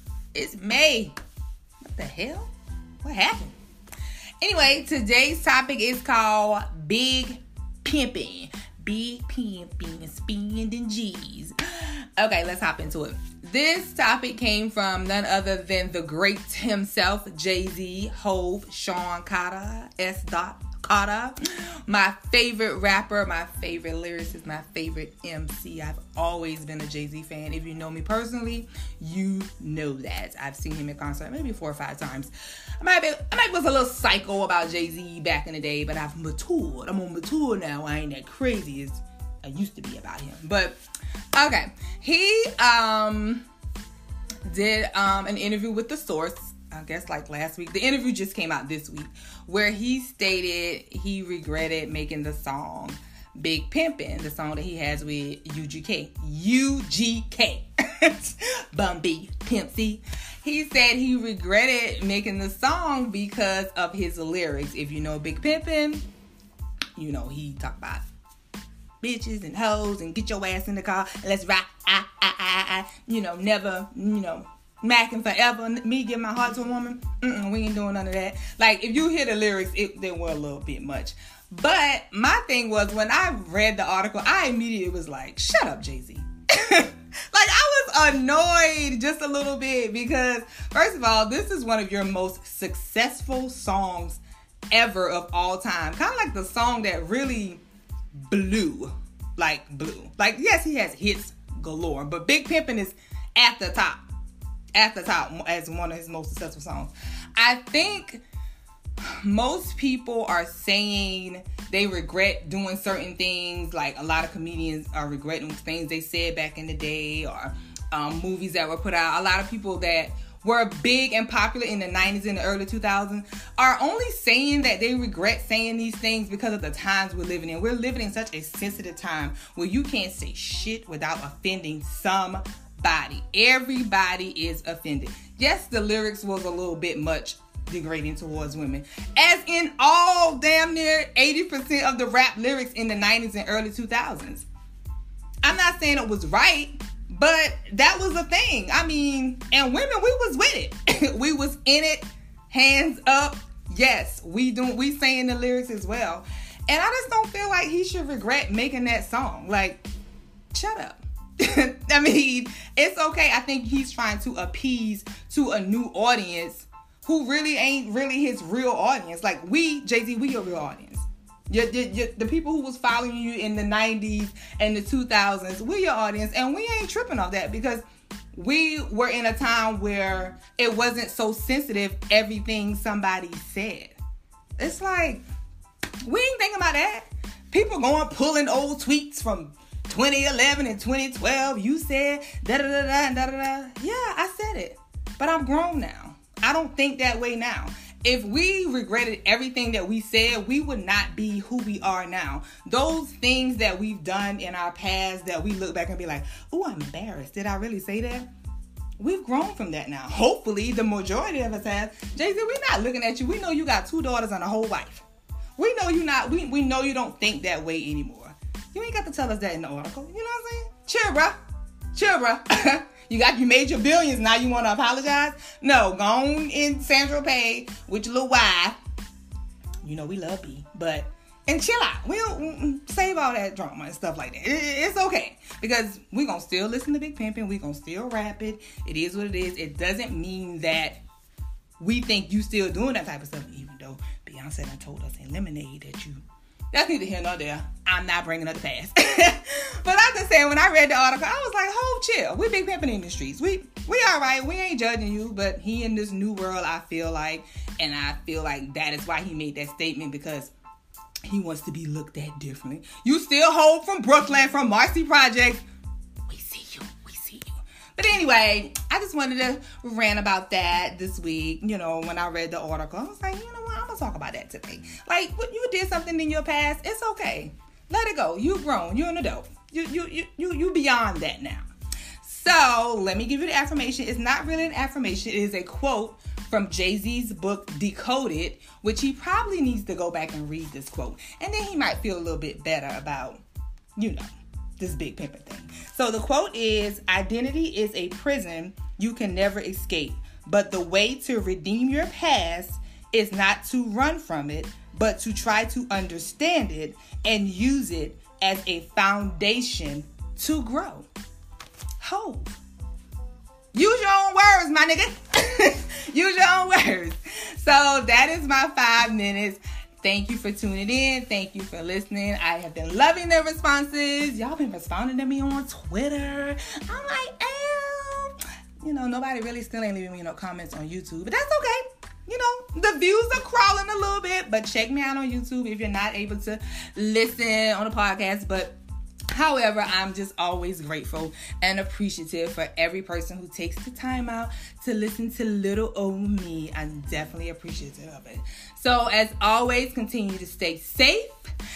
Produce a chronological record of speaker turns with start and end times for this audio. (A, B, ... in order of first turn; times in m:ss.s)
0:00.3-0:01.2 A
0:01.8-0:02.5 A
0:03.0-0:03.6 A
0:04.4-0:40.8 A
0:41.3-0:43.4 A
0:44.4-1:06.1 A
1:07.0-1:08.0 A
1:09.0-1:37.6 A
1:38.2-1:44.0 A
1:44.7-1:48.2 A
1:49.0-2:24.5 A
2:25.4-2:39.8 A
2:40.5-3:04.0 A
3:04.6-3:05.2 A
3:06.0-3:28.3 A
3:29.0-3:35.0 A
3:35.6-3:41.4 A
3:41.9-3:48.8 A
3:49.8-4:01.0 A
4:01.8-4:20.5 A
4:21.2-4:25.6 A
4:26.2-4:41.7 A
4:42.2-4:53.4 A
4:54.0-4:54.3 A
4:54.8-5:11.1 A
5:12.0-5:12.6 A
5:13.7-5:38.8 A
5:39.3-5:51.5 A